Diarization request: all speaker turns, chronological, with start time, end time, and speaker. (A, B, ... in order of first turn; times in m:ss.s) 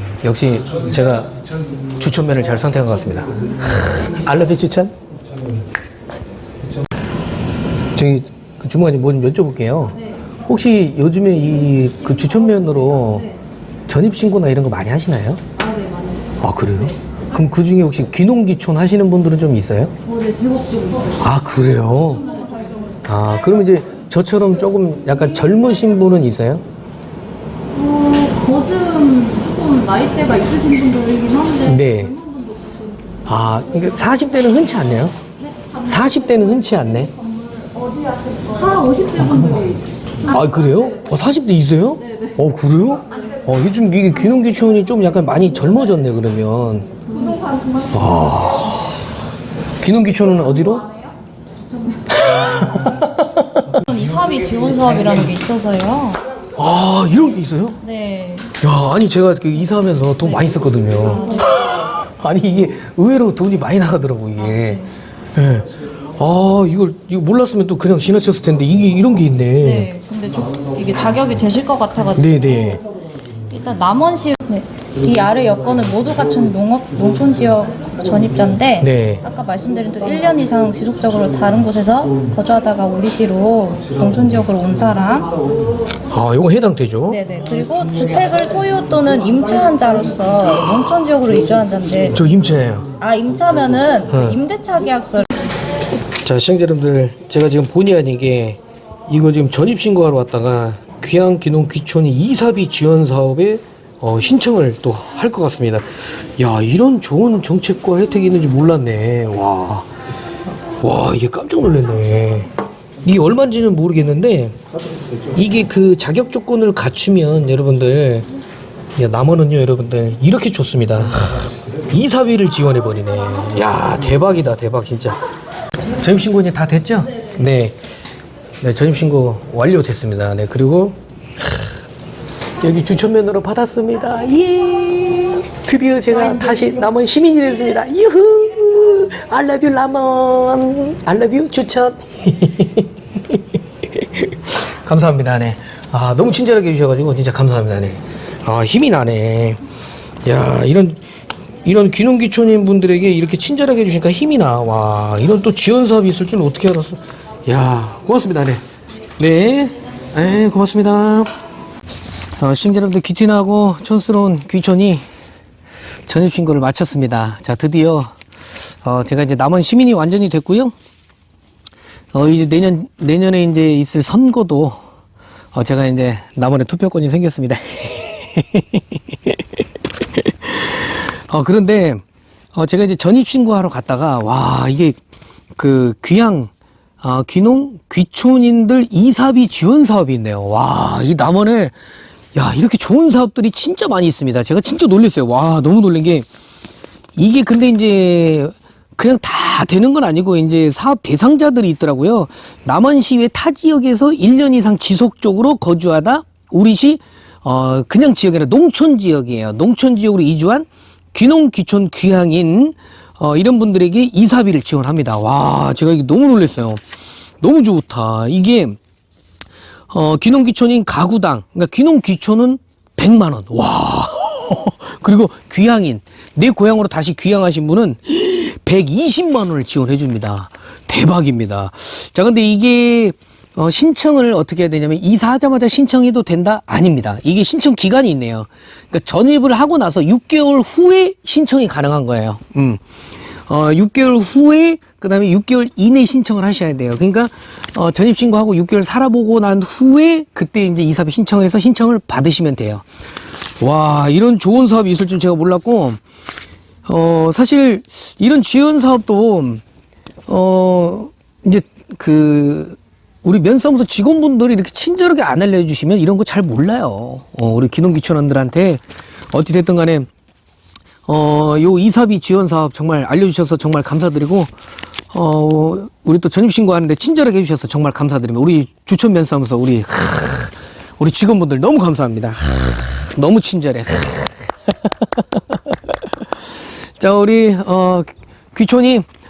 0:00.2-0:04.9 A
0:07.9-0:13.3 A
0:13.9-0:15.4 A
0:16.4-0:20.0 A
0:20.2-0:21.0 B
0:21.2-0:22.4 A
0:23.0-0:26.6 A
0:27.7-0:31.6 B
0:31.6-0:32.2 A
0:33.3-0:35.2 A
0:35.8-0:37.1 A
0:38.3-0:39.8 B
0:40.2-0:46.9 A
0:47.9-0:49.1 A
0:49.8-0:50.9 A
0:52.1-0:53.8 A
0:53.7-0:56.2 B
0:56.6-0:57.8 A
0:57.8-0:58.5 B
0:58.6-1:09.9 A
1:01.1-1:01.6 B
1:04.4-1:04.8 B
1:09.6-1:12.7 B
1:12.2-1:12.8 A
1:13.4-1:25.4 B
1:18.8-1:19.3 A
1:26.1-1:27.2 A
1:27.1-1:32.2 B
1:32.1-1:32.9 A
1:33.0-1:35.4 B
1:34.1-1:34.4 A
1:36.2-1:49.9 A
1:50.8-1:52.5 A
1:53.0-1:54.6 A
1:55.4-1:58.3 A
1:59.0-2:05.2 A
2:05.9-2:07.8 A
2:08.6-2:11.7 A
2:12.6-2:29.6 A
2:30.2-2:31.0 A
2:31.6-2:38.6 A
2:39.2-2:41.3 A
2:42.4-2:45.0 A
2:46.1-2:50.7 A
2:52.1-2:54.8 A
2:55.5-2:59.4 A
3:00.2-3:02.0 A
3:02.5-3:05.0 A
3:05.6-3:11.8 A
3:12.3-3:16.3 A
3:17.2-3:36.8 A
3:37.4-3:38.8 A
3:39.9-4:02.8 A
4:03.5-4:12.8 A
4:13.6-4:16.0 A
4:16.9-4:19.6 A
4:20.3-4:30.1 A
4:31.1-4:34.5 A
4:35.1-4:45.8 A
4:47.0-4:49.1 A